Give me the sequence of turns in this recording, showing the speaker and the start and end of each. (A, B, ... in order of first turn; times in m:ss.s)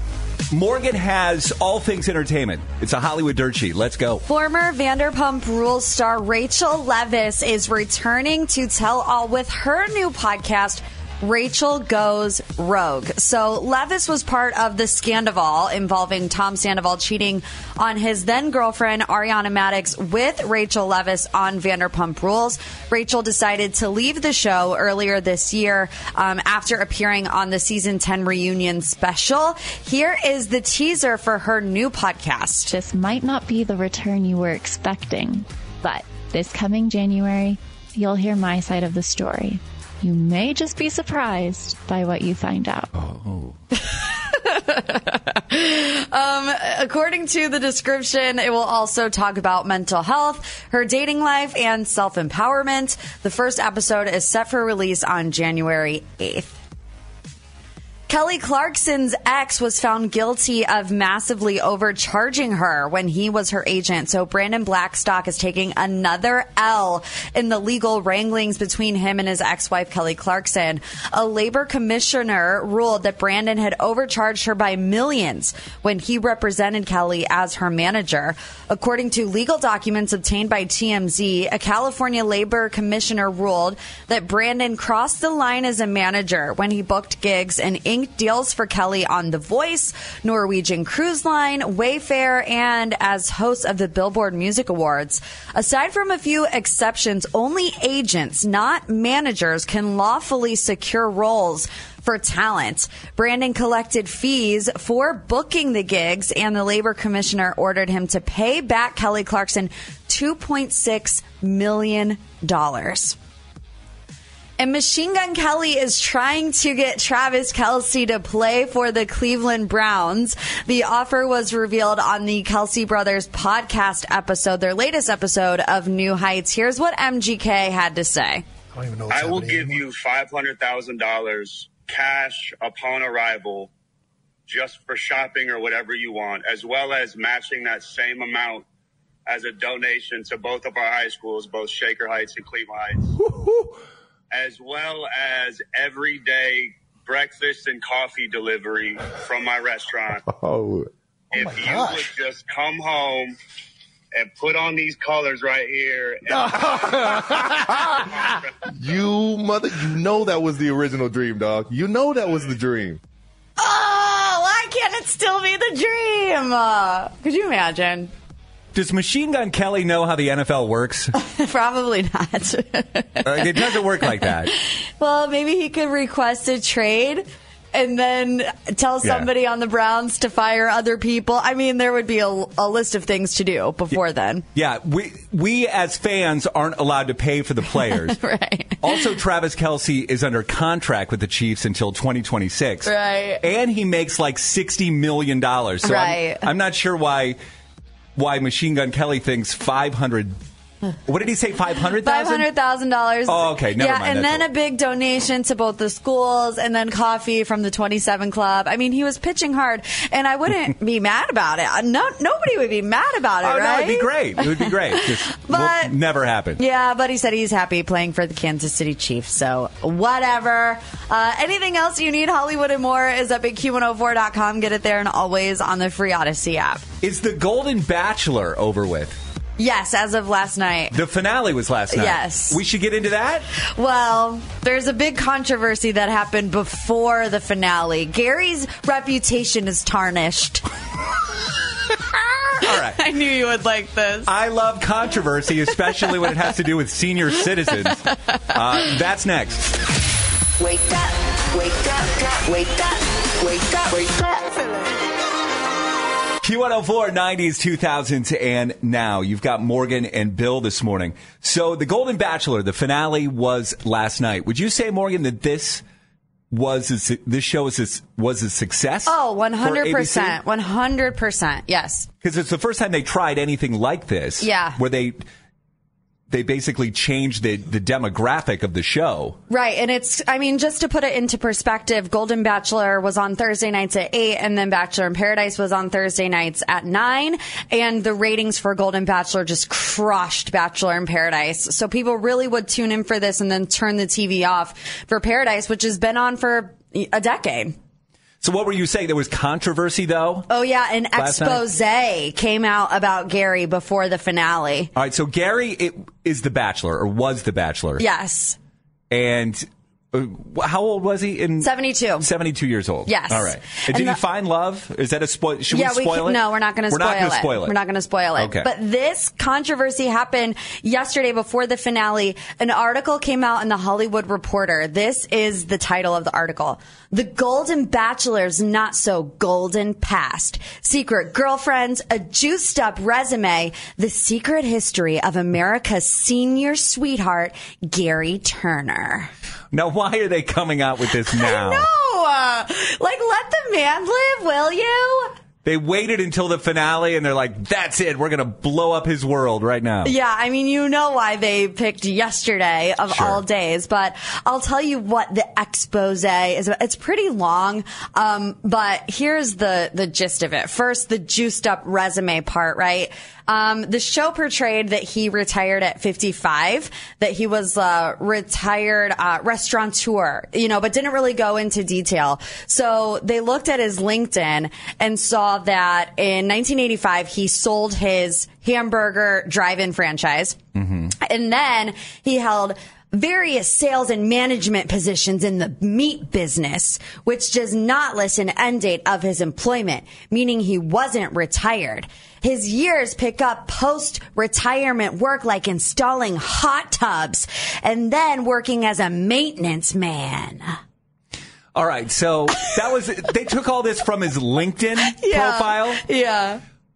0:00.5-0:04.2 A
0:04.3-0:32.7 B
0:32.7-0:42.9 C
0:42.9-0:43.6 A
0:43.9-0:56.6 B
0:58.1-1:53.2 B
1:54.6-2:08.4 B
2:08.7-2:09.8 D
2:09.1-2:13.7 E
2:14.5-2:18.6 E
2:19.3-2:23.1 E
2:24.3-2:30.2 E
2:30.3-2:32.0 D
2:31.3-2:33.4 E
2:34.1-2:36.9 E
2:36.3-2:38.0 D
2:38.7-2:43.0 D
2:43.6-2:48.1 B
2:48.7-2:51.1 A
2:51.2-2:54.3 B
2:53.2-2:54.5 A
2:55.0-3:04.4 B
2:59.0-2:59.3 A
3:04.5-3:08.2 A
3:07.9-3:08.8 B
3:08.8-3:17.4 A
3:12.8-3:13.4 B
3:15.8-3:16.5 B
3:18.2-3:20.4 A
3:21.0-3:22.5 A
3:22.0-3:35.9 B
3:23.3-3:24.5 A
3:33.4-3:36.6 A
3:36.6-3:46.8 B
3:47.0-3:49.2 A
3:49.6-3:50.9 B
3:50.9-3:53.5 A
3:51.9-3:52.6 B
3:53.6-4:00.6 B
4:02.6-4:03.0 A
4:02.6-4:04.3 B
4:04.2-4:09.7 A
4:10.6-4:14.8 F
4:16.4-4:25.8 A
4:26.5-4:30.4 A
4:29.0-4:32.1 B
4:32.2-4:35.2 A
4:34.4-4:34.8 B
4:36.3-4:39.4 A
4:39.5-4:57.7 B
4:58.4-5:00.5 A
5:00.5-5:04.9 B
5:01.2-5:01.7 A
5:04.9-5:08.0 A
5:08.0-5:08.6 B
5:09.1-5:17.7 A
5:11.6-5:12.3 B
5:13.1-5:14.2 B
5:15.7-5:39.3 B
5:18.4-5:18.7 A
5:39.7-5:41.9 A
5:41.3-5:45.3 B
5:45.6-5:50.1 A
5:50.0-6:20.6 B
5:53.1-5:53.4 A
6:20.7-6:21.1 A
6:21.2-6:40.8 B
6:41.7-6:46.0 A
6:45.1-6:46.6 B